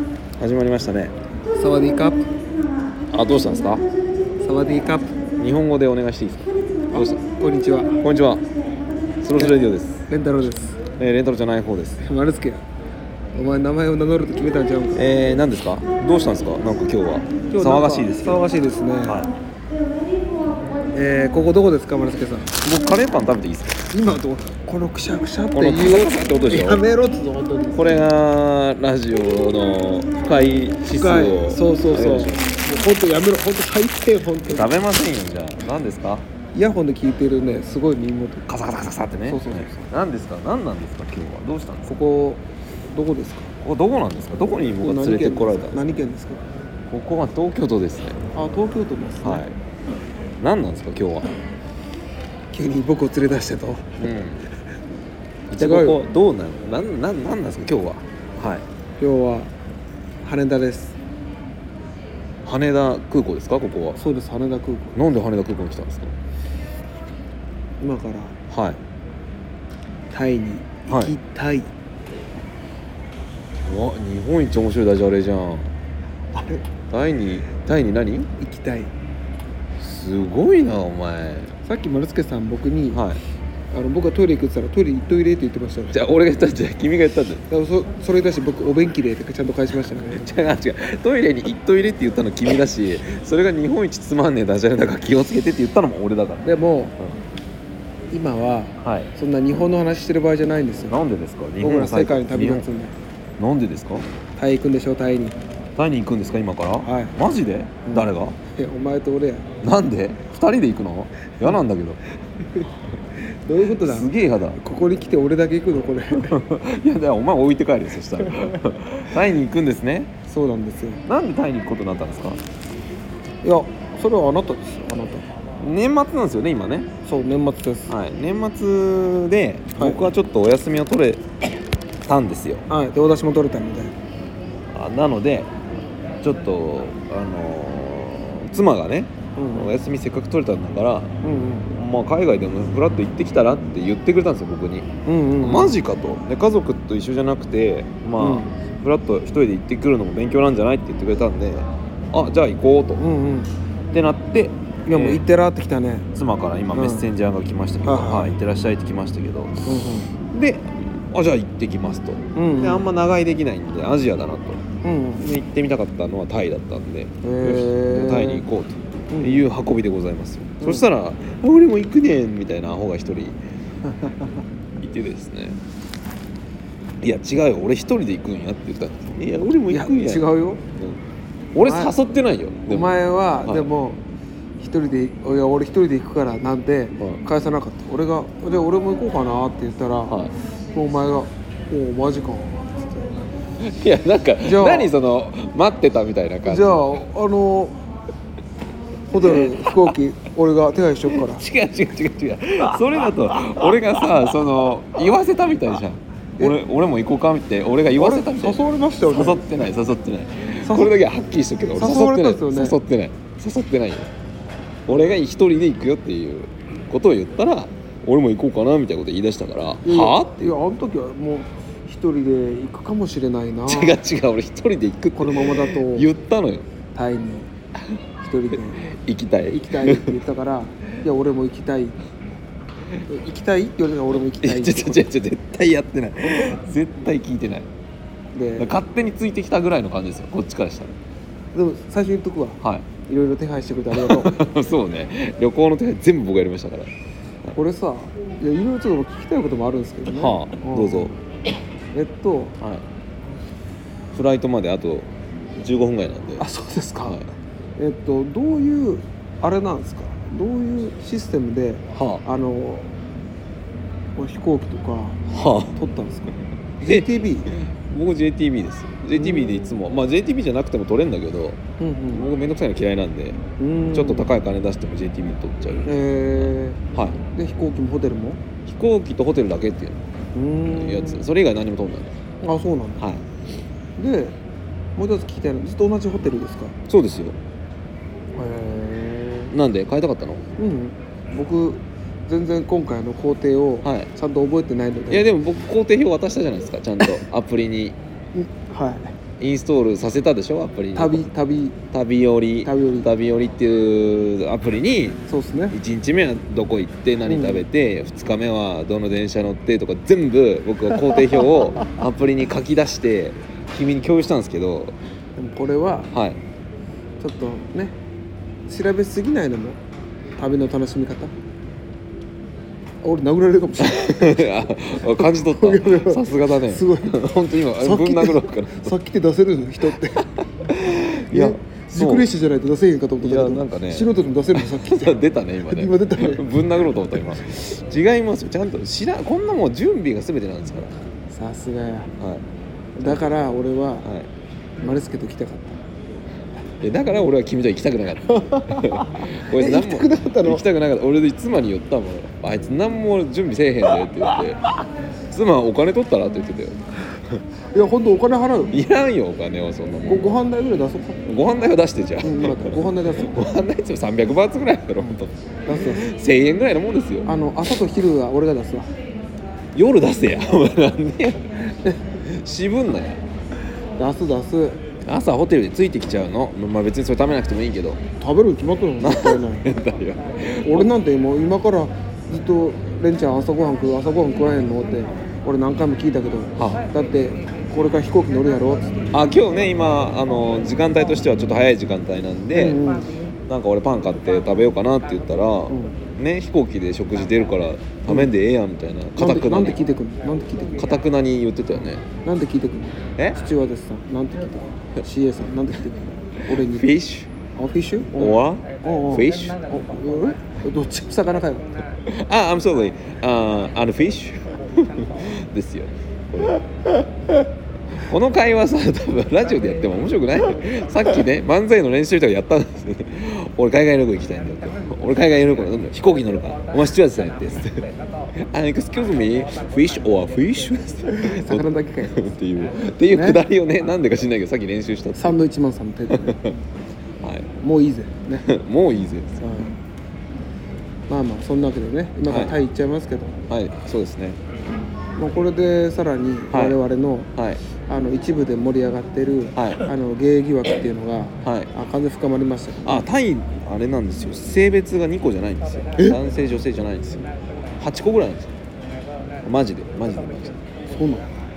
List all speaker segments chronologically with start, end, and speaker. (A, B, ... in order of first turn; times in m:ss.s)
0:00.4-0:01.2 A
0:01.5-0:02.3 B
0:03.1-0:03.9 A
0:04.4-0:05.2 B
0:05.4-0:07.2 A
0:06.9-0:07.9 B
0:08.0-0:08.5 A
0:09.2-0:10.1 A
0:09.4-0:10.8 B
0:11.0-0:12.0 A
0:12.0-0:12.6 B
0:13.3-0:15.0 B
0:14.9-0:18.4 A
0:17.5-0:19.2 B
0:19.0-0:19.3 A
0:20.9-0:22.5 B
0:22.6-0:23.9 A
0:23.9-0:28.0 B
0:25.5-0:26.8 A
0:27.7-0:32.5 A
0:30.9-0:34.8 B
0:34.4-0:36.2 A
0:36.5-0:38.5 B
0:38.5-0:41.9 A
0:39.2-0:39.9 B
0:41.9-0:43.5 B
0:43.6-0:45.8 A
0:44.8-0:46.4 B
0:46.9-0:48.2 A
0:48.3-0:49.4 B
0:49.2-0:49.6 A
0:50.4-0:51.3 A
0:52.5-0:54.1 B
0:54.0-0:54.4 A
0:55.5-0:58.6 A
0:55.6-0:56.0 B
0:59.0-0:59.5 B
1:00.2-1:01.0 B
1:02.4-1:04.0 A
1:04.0-1:05.0 B
1:04.9-1:06.1 A
1:07.8-1:08.4 B
1:08.5-1:08.8 A
1:10.1-1:11.7 B
1:10.9-1:11.1 A
1:13.6-1:15.7 A
1:16.3-1:16.7 B
1:16.9-1:18.3 A
1:18.4-1:18.9 B
1:19.8-1:21.5 A
1:21.6-1:23.0 B
1:22.9-1:23.2 A
1:23.7-1:26.0 B
1:25.9-1:27.4 A
1:27.5-1:30.5 B
1:30.1-1:37.2 A
1:36.4-1:36.9 B
1:38.1-1:41.0 B
1:38.8-1:39.1 A
1:40.9-1:42.6 A
1:41.6-1:42.9 B
1:43.4-1:44.0 A
1:44.4-1:45.4 B
1:45.8-1:48.4 A
1:46.8-1:47.2 B
1:47.8-1:49.5 B
1:49.6-1:52.0 A
1:53.4-1:56.4 B
1:53.8-1:54.6 A
1:56.1-2:00.1 A
2:00.3-2:01.0 B
2:01.1-2:02.4 A
2:03.4-2:05.3 B
2:05.6-2:06.9 A
2:07.0-2:07.9 B
2:07.9-2:11.2 A
2:09.8-2:10.0 B
2:12.1-2:12.7 A
2:12.7-2:13.9 B
2:14.7-2:15.5 A
2:16.2-2:21.1 A
2:19.4-2:19.8 B
2:21.2-2:21.7 B
2:21.7-2:24.9 A
2:25.0-2:25.8 B
2:25.4-2:33.0 A
2:28.2-2:28.5 B
2:33.0-2:33.5 B
2:33.9-2:35.2 A
2:34.9-2:36.1 B
2:36.1-2:39.6 A
2:36.7-2:37.1 B
2:37.8-2:38.3 B
2:39.6-2:40.1 B
2:40.3-2:44.6 A
2:42.3-2:42.8 B
2:44.8-2:45.2 B
2:45.2-2:53.4 A
2:47.2-2:48.4 B
2:49.1-2:49.5 B
2:53.8-2:54.3 B
2:54.8-2:55.6 A
2:57.0-3:01.0 A
2:59.7-3:00.6 B
3:01.5-3:03.7 A
3:01.6-3:01.9 B
3:02.7-3:04.0 B
3:04.6-3:13.2 B
3:07.0-3:07.2 A
3:13.6-3:17.0 A
3:14.4-3:14.9 B
3:16.4-3:17.8 B
3:19.1-3:21.4 B
3:19.2-3:19.9 A
3:21.1-3:34.1 A
3:27.9-3:29.4 B
3:30.6-3:30.9 B
3:31.7-3:32.8 B
3:34.9-3:40.5 A
3:39.8-3:44.0 B
3:43.7-3:46.6 A
3:45.1-3:46.1 B
3:46.9-3:47.5 B
3:48.2-3:48.8 B
3:48.8-3:50.2 A
3:49.5-3:52.0 B
3:53.1-3:55.0 B
3:54.1-3:57.7 A
3:58.3-3:58.7 B
3:58.6-4:00.9 A
4:01.5-4:04.4 B
4:02.6-4:02.9 A
4:03.9-4:06.9 A
4:07.5-4:11.1 B
4:10.1-4:11.1 A
4:11.9-4:12.5 B
4:14.1-4:16.4 A
4:16.4-4:17.2 B
4:17.8-4:22.9 B
4:21.9-4:22.2 A
4:24.2-4:27.5 B
4:25.3-4:25.7 A
4:26.8-4:37.2 A
4:29.1-4:29.7 B
4:31.8-4:32.2 B
4:33.6-4:34.3 B
4:35.8-4:38.4 B
4:38.6-4:40.0 A
4:40.3-4:41.2 B
4:40.7-4:42.2 A
4:42.4-4:43.0 B
4:43.0-4:43.2 A
4:44.0-4:44.4 B
4:45.0-4:46.7 B
4:46.9-4:47.4 A
4:48.3-4:49.5 B
4:49.5-4:50.4 A
4:50.6-4:55.3 B
4:53.8-4:54.1 A
4:55.1-4:58.0 A
4:58.3-4:59.2 B
4:59.4-5:01.3 A
5:00.9-5:01.8 B
5:01.9-5:14.9 A
5:02.6-5:03.1 B
5:05.3-5:05.8 B
5:07.3-5:07.6 B
5:15.4-5:16.1 B
5:16.1-5:16.4 A
5:17.2-5:18.0 B
5:18.7-5:19.8 B
5:20.4-5:21.3 B
5:23.0-5:27.2 B
5:23.8-5:28.9 A
5:27.7-5:30.2 B
5:30.7-5:32.3 A
5:31.3-5:37.2 B
5:33.2-5:40.9 A
5:41.3-5:42.1 B
5:42.2-5:42.4 A
5:43.0-5:44.0 B
5:44.0-5:44.3 A
5:44.8-5:45.8 B
5:46.8-5:54.6 A
5:48.3-5:50.6 B
5:55.3-5:56.8 A
5:57.7-5:58.8 B
5:58.7-6:00.3 A
6:00.1-6:01.2 B
6:01.2-6:07.3 A
6:02.2-6:03.4 B
6:05.0-6:06.0 B
6:07.2-6:08.9 B
6:09.7-6:11.4 A
6:12.2-6:13.2 A
6:14.0-6:14.8 B
6:15.0-6:18.0 A
6:18.2-6:19.6 B
6:19.0-6:20.9 A
6:20.6-6:29.0 B
6:26.6-6:26.8 A
6:29.1-6:32.8 A
6:32.5-6:33.2 B
6:33.5-6:39.8 A
6:35.7-6:36.0 B
6:39.2-6:40.9 B
6:40.8-6:42.0 A
6:42.2-6:46.9 B
6:43.2-6:43.4 A
6:46.5-6:47.3 A
6:47.6-6:51.8 B
6:48.2-6:49.6 A
6:52.0-6:56.8 A
6:58.0-7:15.4 A
7:11.1-7:12.2 B
7:13.1-7:13.4 B
7:15.1-7:16.6 B
7:17.2-7:17.5 A
7:17.6-7:18.5 B
7:18.5-7:19.6 A
7:19.4-7:19.7 B
7:21.1-7:23.3 B
7:22.2-7:22.5 A
7:23.5-7:24.4 A
7:25.2-7:27.3 B
7:26.5-7:26.8 A
7:27.4-7:27.6 A
7:27.9-7:33.0 B
7:29.5-7:29.8 A
7:31.4-7:31.7 A
7:32.8-7:37.3 A
7:37.8-7:38.5 A
7:39.4-7:40.6 A
7:40.9-7:41.3 B